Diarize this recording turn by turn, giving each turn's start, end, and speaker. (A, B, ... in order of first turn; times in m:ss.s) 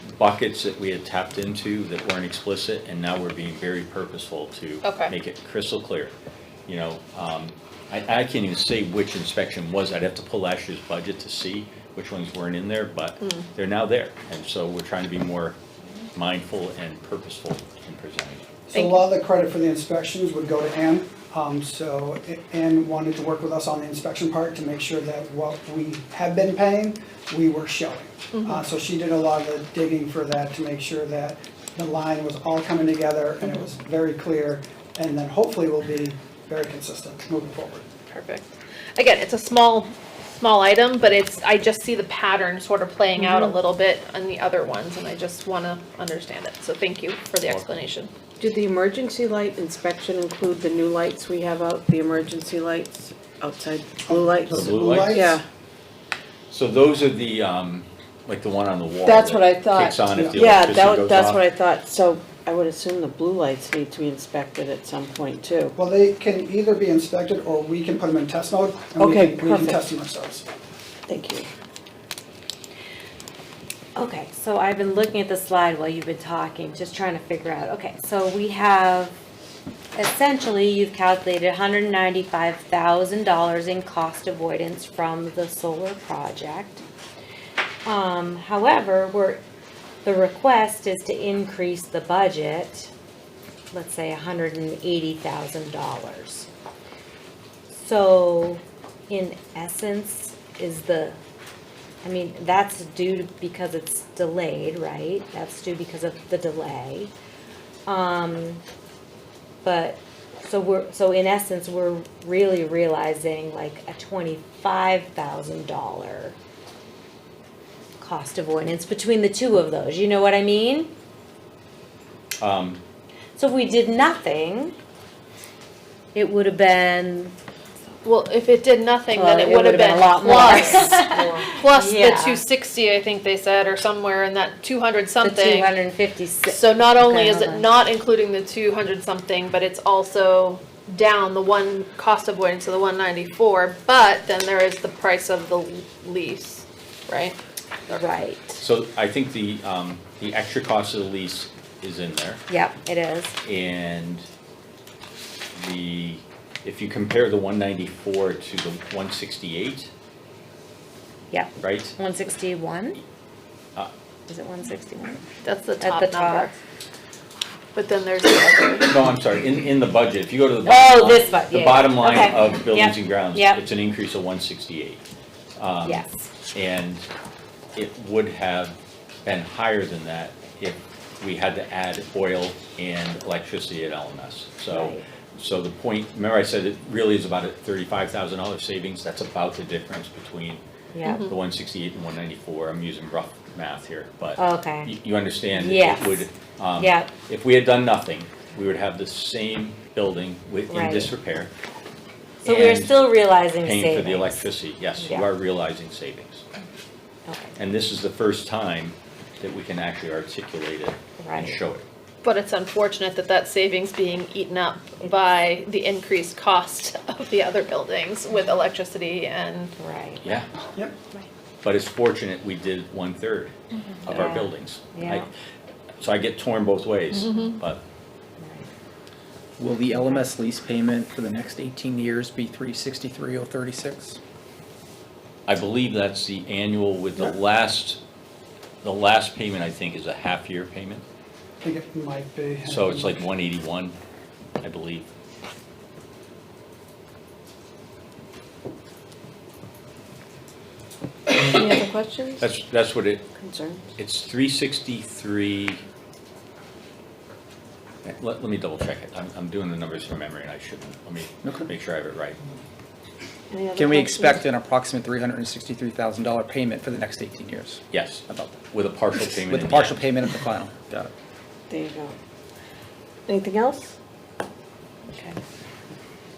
0:00.2-0:06.1 A
0:04.8-0:05.1 B
0:06.7-0:15.6 A
0:13.2-0:13.4 B
0:16.1-0:18.4 A
0:18.7-0:37.9 C
0:18.7-0:19.0 B
0:28.3-0:28.6 B
0:38.1-0:48.1 B
0:48.4-0:55.4 D
0:54.1-0:55.4 C
0:54.5-0:55.3 A
0:56.5-1:01.4 A
0:59.0-1:05.7 D
1:05.8-1:10.4 C
1:09.0-1:09.8 D
1:11.1-1:11.5 D
1:14.0-1:19.2 E
1:20.0-1:26.8 E
1:27.8-1:29.4 E
1:30.0-1:32.9 E
1:33.7-1:36.5 E
1:37.7-1:41.2 E
1:42.0-1:47.1 E
1:47.9-1:48.6 E
1:49.6-1:56.4 E
1:58.0-2:00.9 E
2:02.4-2:02.8 A
2:03.4-2:04.7 E
2:06.1-2:07.3 E
2:08.0-2:15.7 B
2:09.1-2:12.4 E
2:15.2-2:17.7 E
2:16.4-2:27.4 B
2:27.9-2:28.6 E
2:28.6-2:32.4 A
2:32.5-2:33.4 E
2:33.4-2:34.3 A
2:35.5-2:39.9 A
2:41.3-2:43.0 E
2:41.6-2:42.0 A
2:44.3-2:45.2 E
2:45.4-2:46.6 B
2:45.8-2:46.5 E
2:47.7-2:48.9 B
2:48.9-2:55.0 A
2:50.6-2:53.6 E
2:55.6-2:57.1 A
2:55.8-2:56.3 E
2:57.7-3:10.6 A
3:04.7-3:05.0 E
3:10.9-3:11.3 E
3:11.0-3:11.3 B
3:11.2-3:21.5 A
3:14.4-3:15.0 E
3:15.5-3:17.1 E
3:20.7-3:21.1 E
3:22.4-3:25.2 E
3:22.4-3:26.4 A
3:27.3-3:27.5 E
3:27.6-3:31.8 A
3:31.2-3:31.6 E
3:32.2-3:39.7 B
3:39.8-3:40.3 E
3:40.2-3:40.5 A
3:41.6-3:45.3 A
3:44.0-3:45.3 E
3:46.0-3:47.8 A
3:47.1-3:47.6 B
3:48.4-3:48.7 E
3:49.6-3:54.2 F
3:55.5-3:58.0 A
3:58.8-4:01.0 A
4:01.6-4:03.2 C
4:02.6-4:04.0 A
4:04.6-4:05.1 A
4:11.4-4:12.5 D
4:12.4-4:13.2 A
4:13.4-4:13.9 D
4:13.9-4:15.8 A
4:18.0-4:22.4 A
4:21.4-4:21.7 F
4:23.5-4:24.4 D
4:23.7-4:28.6 F
4:27.9-4:30.0 A
4:29.4-4:31.1 F
4:31.7-4:32.2 D
4:33.3-4:33.9 D